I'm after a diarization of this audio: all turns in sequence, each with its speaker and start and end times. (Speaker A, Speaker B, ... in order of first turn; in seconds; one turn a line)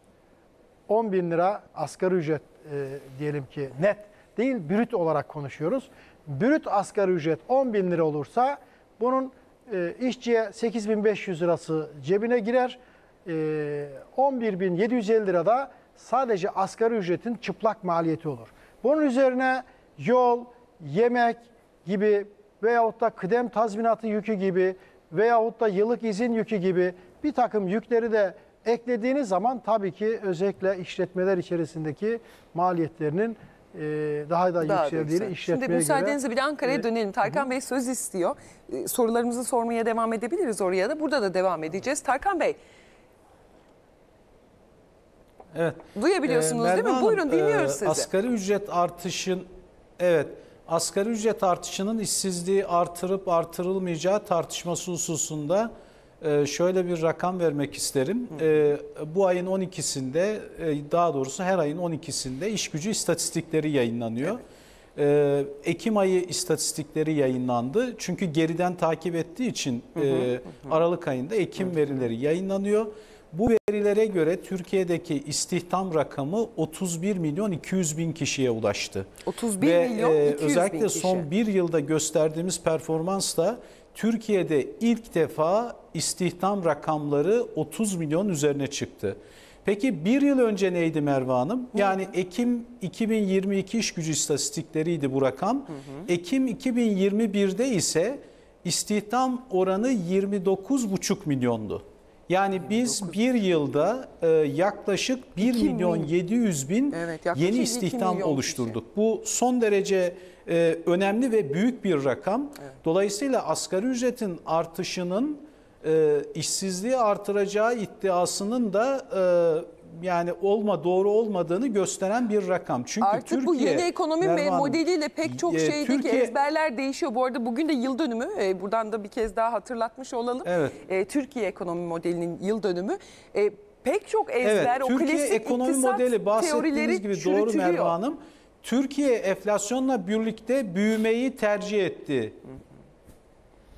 Speaker A: 0.9-36.2
Speaker B: 34.6-42.6
Speaker C: 45.5-49.5
Speaker B: 45.9-48.1
Speaker C: 50.0-55.7
Speaker C: 56.2-64.4
Speaker C: 65.0-79.1
Speaker B: 79.2-81.3
Speaker C: 79.6-126.3
Speaker B: 102.8-103.1
Speaker B: 105.4-106.1
Speaker B: 106.9-108.8
Speaker B: 123.0-138.0
Speaker C: 130.4-130.8
Speaker C: 134.4-142.4